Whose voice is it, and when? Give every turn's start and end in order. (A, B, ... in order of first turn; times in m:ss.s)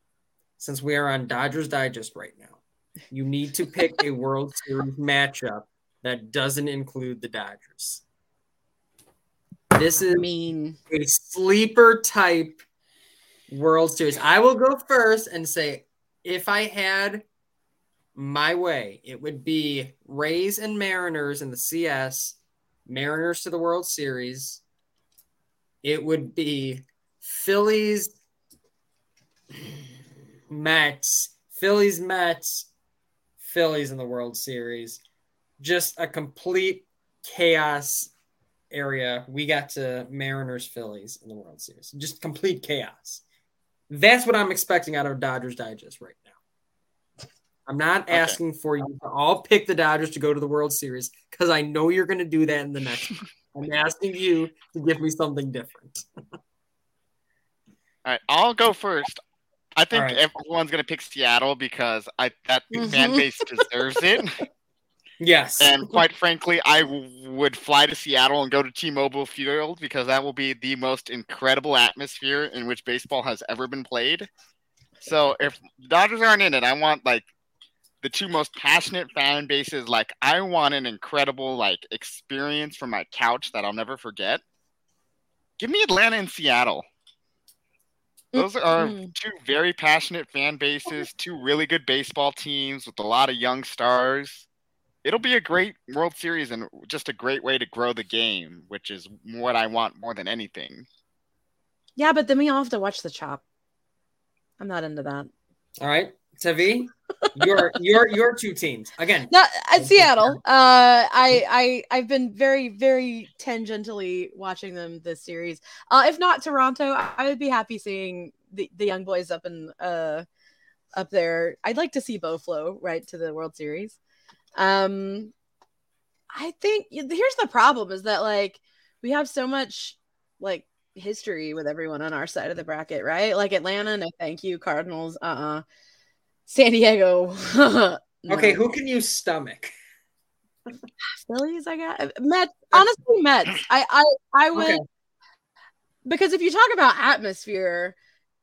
0:00.6-0:02.6 A
0:03.1-0:08.0 A
0:09.7-0:10.3 A
0:10.1-0:10.8 B
0:10.9-0:12.6 A
0:13.5-0:17.2 A
0:18.2-0:24.6 A
0:25.8-0:28.1 A
0:30.5-0:32.7 A
0:33.4-0:35.0 A
0:35.6-0:38.1 A
0:38.7-0:43.2 A
0:43.9-0:46.3 A
0:47.7-0:56.0 A
0:48.1-0:48.4 C
0:58.0-0:59.2 C
0:59.8-1:04.4 C
0:59.9-1:00.2 A
1:05.2-1:06.0 A
1:05.6-1:14.3 C
1:15.0-1:17.3 C
1:18.0-1:24.4 C
1:25.6-1:26.8 C
1:28.3-1:29.1 B
1:28.3-1:34.5 C
1:35.0-1:40.9 C
1:42.0-1:43.4 B
1:44.6-1:45.3 B
1:45.8-1:50.4 A
1:49.3-2:00.3 B
2:01.0-2:04.0 B
2:04.6-2:05.3 B
2:06.3-2:15.6 B
2:16.5-2:18.6 B
2:18.3-2:19.7 A
2:21.2-2:24.8 B
2:24.5-2:24.8 A
2:26.0-2:28.0 B